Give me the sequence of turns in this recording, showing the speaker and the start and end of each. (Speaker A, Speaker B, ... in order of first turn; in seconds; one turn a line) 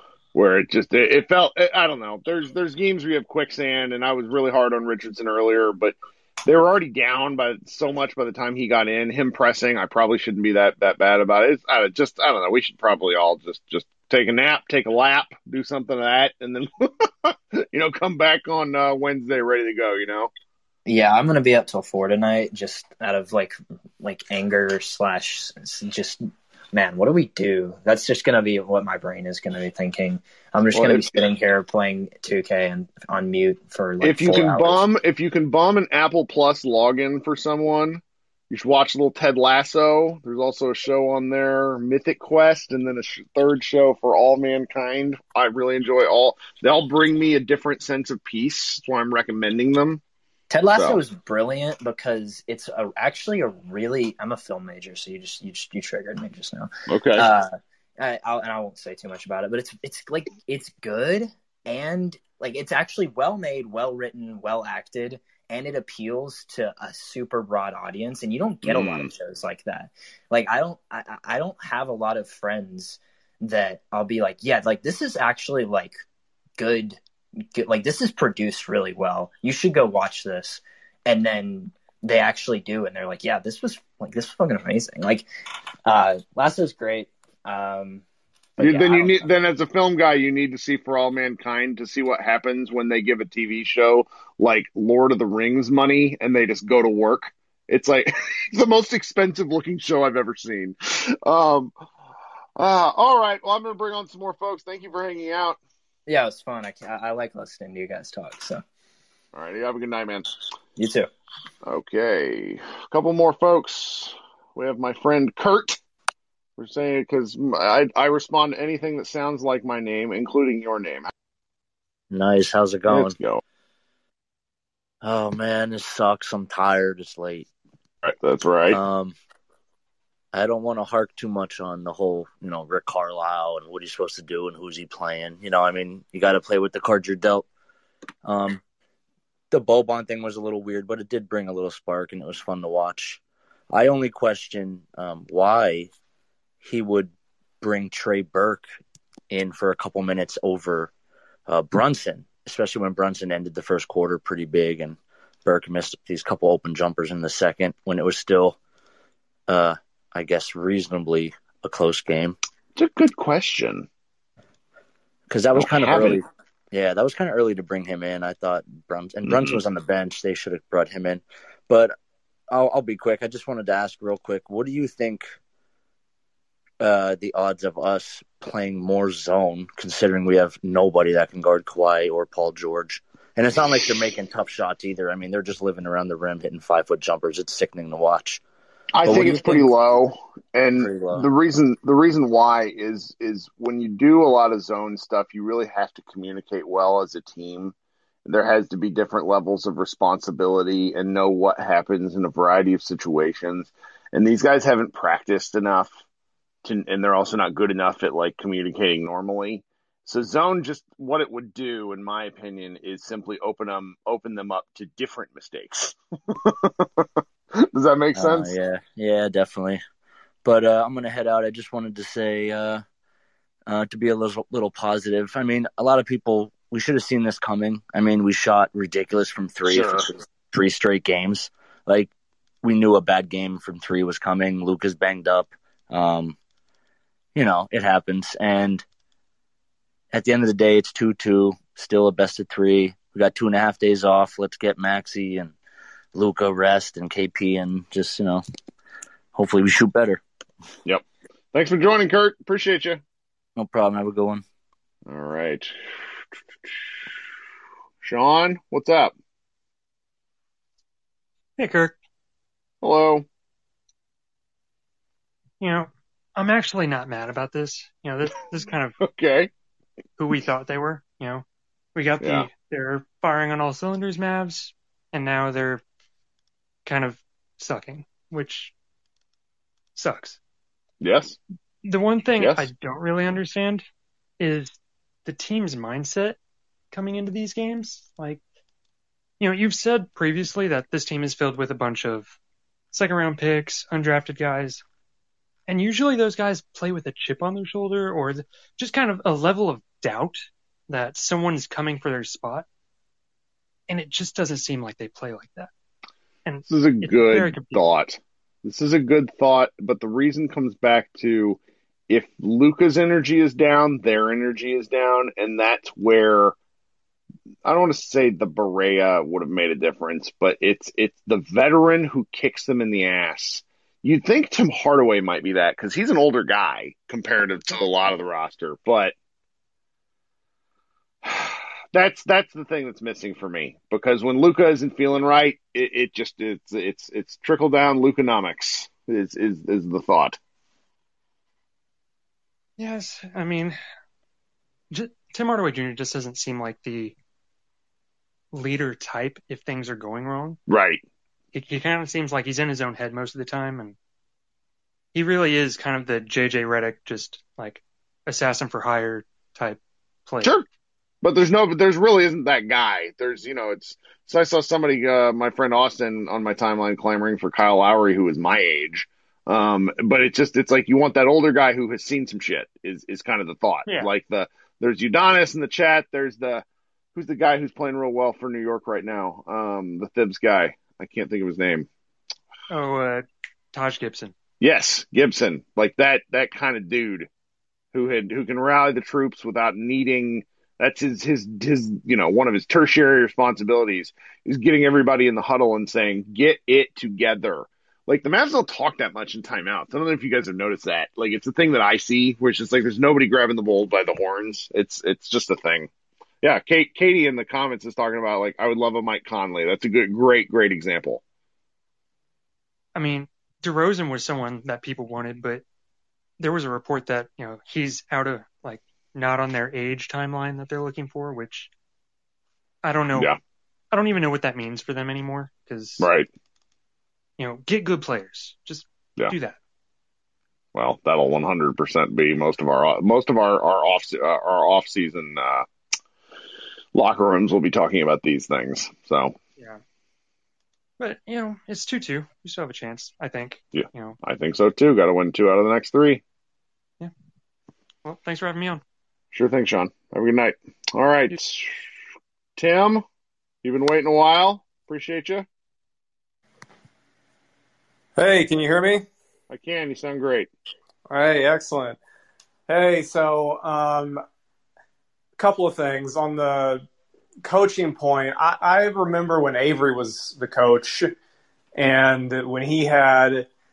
Speaker A: 0.3-20.3
Speaker B: 20.9-34.8
Speaker A: 30.7-31.2
Speaker A: 34.0-50.0
Speaker B: 50.5-76.0
Speaker A: 50.7-51.0
Speaker A: 56.9-57.3
Speaker A: 68.6-69.1
Speaker B: 76.6-77.0
Speaker B: 77.5-85.3
Speaker B: 85.9-88.0
Speaker B: 88.6-89.3
Speaker A: 88.6-101.7
Speaker A: 102.5-105.6
Speaker B: 106.1-108.6
Speaker A: 109.3-110.3
Speaker B: 110.8-111.1
Speaker A: 111.6-115.8
Speaker A: 116.6-121.1
Speaker C: 122.1-123.2
Speaker A: 122.9-123.4
Speaker C: 125.0-127.5
Speaker A: 128.0-128.8
Speaker C: 128.7-129.2
Speaker C: 130.3-137.4
Speaker C: 138.2-138.6
Speaker C: 139.5-143.2
Speaker C: 143.7-145.9
Speaker C: 146.6-148.7
Speaker C: 149.3-150.9
Speaker C: 151.5-158.6
Speaker C: 159.5-162.3
Speaker A: 162.8-163.9
Speaker C: 165.3-171.9
Speaker A: 165.6-166.2
Speaker A: 169.3-169.6
Speaker C: 172.5-175.2
Speaker C: 176.8-188.4
Speaker A: 188.9-197.7
Speaker C: 189.0-189.7
Speaker C: 190.8-191.3
Speaker A: 198.2-205.9
Speaker A: 206.6-217.0
Speaker A: 217.7-218.5
Speaker C: 218.1-219.8
Speaker C: 220.4-222.8
Speaker C: 223.7-232.1
Speaker A: 229.7-230.0
Speaker C: 232.6-236.4
Speaker C: 237.3-238.8
Speaker C: 240.1-245.5
Speaker C: 246.1-248.4
Speaker C: 249.3-250.2
Speaker A: 250.8-253.0
Speaker C: 253.6-254.4
Speaker A: 255.1-255.7
Speaker A: 258.0-259.1
Speaker D: 261.6-261.9
Speaker A: 262.8-263.2
Speaker D: 265.6-269.0
Speaker A: 269.0-269.5
Speaker D: 270.2-271.4
Speaker D: 271.9-275.8
Speaker A: 272.2-272.5
Speaker D: 276.8-278.7
Speaker D: 279.9-280.4
Speaker A: 281.0-281.4
Speaker D: 281.8-283.8
Speaker A: 282.4-282.7
Speaker D: 284.4-286.4
Speaker D: 286.9-288.4
Speaker D: 289.4-292.4
Speaker D: 292.9-294.8
Speaker D: 295.7-302.6
Speaker D: 303.9-305.7
Speaker D: 306.4-307.8
Speaker A: 306.7-316.6
Speaker A: 317.6-329.1
Speaker A: 331.2-340.4
Speaker D: 342.8-343.8
Speaker D: 344.9-347.1
Speaker D: 348.5-350.6
Speaker A: 350.7-351.0
Speaker D: 351.5-353.9
Speaker D: 355.1-360.6
Speaker A: 361.2-376.6
Speaker A: 377.1-381.9
Speaker D: 382.7-384.3
Speaker A: 384.6-387.3
Speaker A: 387.9-405.9
Speaker A: 406.4-411.2
Speaker D: 412.9-415.6
Speaker D: 416.4-421.7
Speaker D: 422.8-423.3
Speaker D: 423.9-426.1
Speaker A: 426.0-426.3
Speaker D: 427.4-429.6
Speaker A: 430.7-435.6
Speaker A: 436.9-439.3
Speaker D: 441.0-444.2
Speaker A: 443.7-446.2
Speaker D: 448.0-448.8
Speaker A: 449.3-451.7
Speaker A: 452.6-453.0
Speaker A: 453.6-455.4
Speaker E: 458.1-459.0
Speaker A: 459.5-460.5
Speaker E: 461.1-462.0
Speaker E: 462.7-464.2
Speaker E: 465.4-466.8
Speaker E: 467.4-471.1
Speaker E: 471.8-473.5